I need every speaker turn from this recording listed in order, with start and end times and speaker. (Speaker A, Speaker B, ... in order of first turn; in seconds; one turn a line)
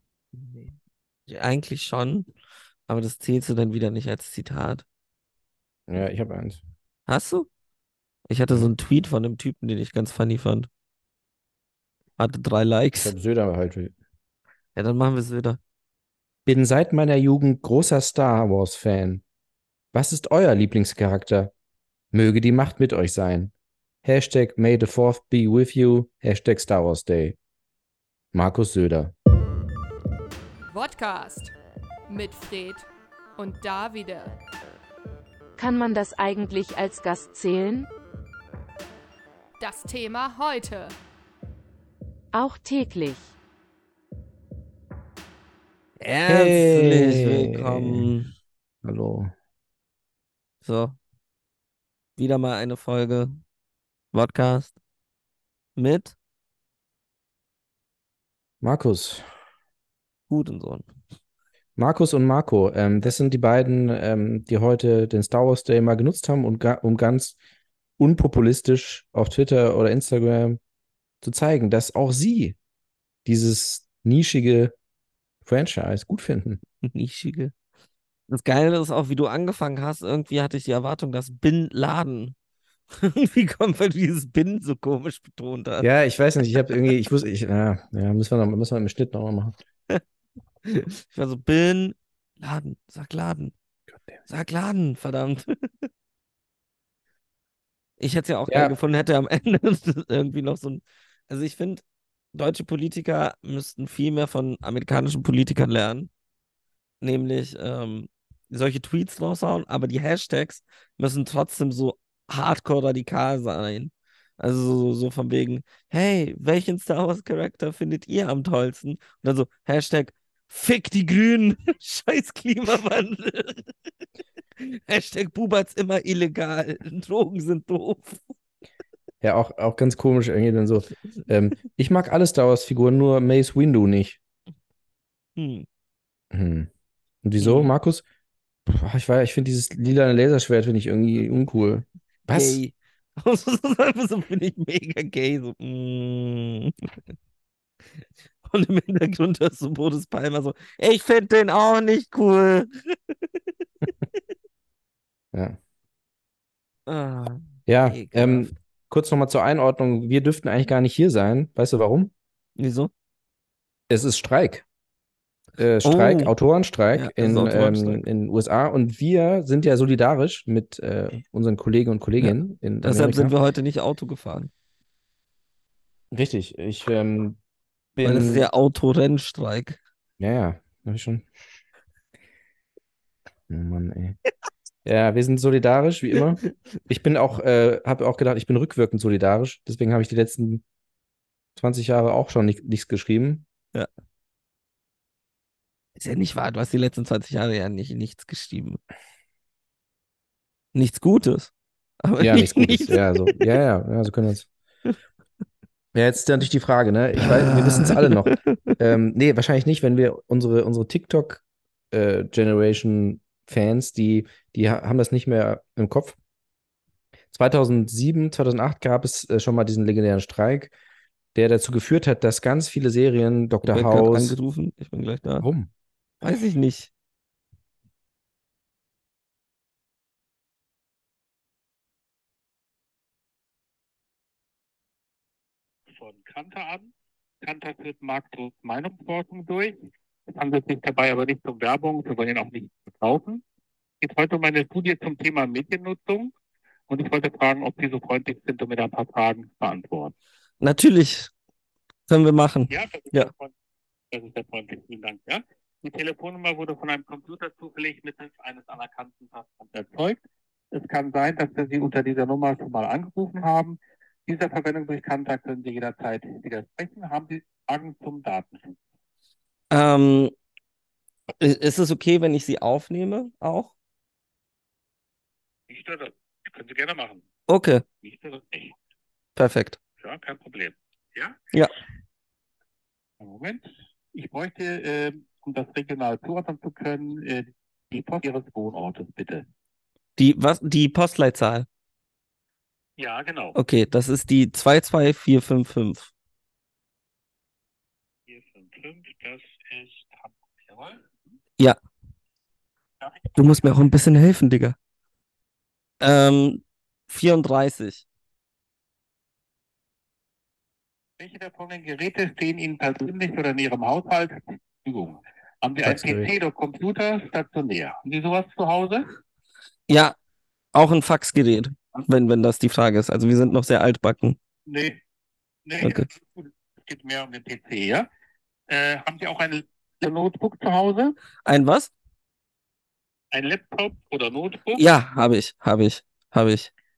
Speaker A: 0.3-0.8
Speaker A: 1.3-2.3
Speaker A: 2.9-4.8
Speaker B: 5.9-6.6
Speaker A: 7.1-7.5
Speaker A: 8.3-10.7
Speaker A: 12.2-13.1
Speaker B: 13.0-13.9
Speaker A: 14.8-15.6
Speaker B: 16.5-19.2
Speaker B: 19.9-21.5
Speaker B: 22.1-23.5
Speaker B: 24.0-27.4
Speaker B: 28.3-29.1
Speaker C: 30.7-31.5
Speaker C: 32.1-34.4
Speaker D: 35.6-37.9
Speaker C: 39.6-41.0
Speaker D: 42.3-43.4
Speaker A: 46.0-48.3
Speaker B: 46.3-48.1
Speaker B: 48.8-49.3
Speaker A: 50.6-51.0
Speaker A: 52.2-53.4
Speaker A: 54.1-54.8
Speaker A: 55.8-56.1
Speaker B: 58.6-59.2
Speaker A: 60.3-60.9
Speaker B: 61.8-67.4
Speaker B: 68.0-70.6
Speaker B: 71.2-72.6
Speaker B: 73.3-74.8
Speaker B: 75.4-76.6
Speaker A: 76.8-77.5
Speaker A: 78.3-82.3
Speaker A: 82.9-85.9
Speaker B: 85.8-89.5
Speaker A: 90.7-93.5
Speaker A: 94.3-95.9
Speaker A: 98.0-101.8
Speaker B: 98.5-98.8
Speaker A: 102.3-106.1
Speaker A: 107.0-123.7
Speaker A: 124.6-128.2
Speaker B: 129.2-134.2
Speaker A: 135.4-135.7
Speaker B: 136.3-136.7
Speaker B: 137.2-138.0
Speaker A: 137.4-137.7
Speaker B: 138.7-142.6
Speaker A: 142.3-146.9
Speaker A: 148.4-153.0
Speaker B: 155.3-155.6
Speaker A: 156.9-158.5
Speaker B: 157.7-162.1
Speaker A: 162.6-162.9
Speaker B: 163.9-164.7
Speaker B: 165.6-173.4
Speaker A: 165.8-166.3
Speaker A: 166.9-168.0
Speaker A: 172.2-174.5
Speaker B: 176.1-177.4
Speaker B: 178.0-178.5
Speaker A: 178.0-179.8
Speaker B: 180.2-181.3
Speaker B: 183.5-184.2
Speaker B: 184.8-190.6
Speaker B: 191.6-193.5
Speaker A: 196.0-198.8
Speaker A: 200.7-201.5
Speaker A: 202.0-203.3
Speaker B: 202.2-204.5
Speaker B: 205.9-216.2
Speaker A: 207.5-208.7
Speaker B: 217.3-220.7
Speaker B: 221.3-224.4
Speaker A: 223.7-225.5
Speaker B: 225.4-225.7
Speaker A: 226.2-226.9
Speaker E: 236.0-236.9
Speaker E: 237.4-239.8
Speaker E: 240.3-243.4
Speaker E: 244.0-246.3
Speaker E: 246.9-250.1
Speaker A: 250.6-251.3
Speaker A: 252.1-253.3
Speaker E: 252.7-253.5
Speaker E: 254.1-260.2
Speaker E: 260.7-268.8
Speaker A: 269.7-270.3
Speaker A: 271.4-273.7
Speaker E: 275.7-277.2
Speaker A: 277.5-277.8
Speaker E: 278.0-278.8
Speaker A: 279.4-279.8
Speaker E: 280.0-281.5
Speaker E: 283.2-289.4
Speaker A: 290.2-291.7
Speaker E: 293.0-293.6
Speaker A: 293.6-296.1
Speaker E: 298.3-301.2
Speaker E: 303.0-303.8
Speaker A: 303.4-304.8
Speaker A: 306.0-308.0
Speaker E: 311.2-319.1
Speaker B: 315.9-316.3
Speaker A: 319.9-320.1
Speaker A: 320.7-324.4
Speaker E: 324.7-325.0
Speaker E: 325.7-328.1
Speaker E: 328.7-331.1
Speaker A: 331.4-331.9
Speaker E: 333.3-334.9
Speaker A: 334.8-336.7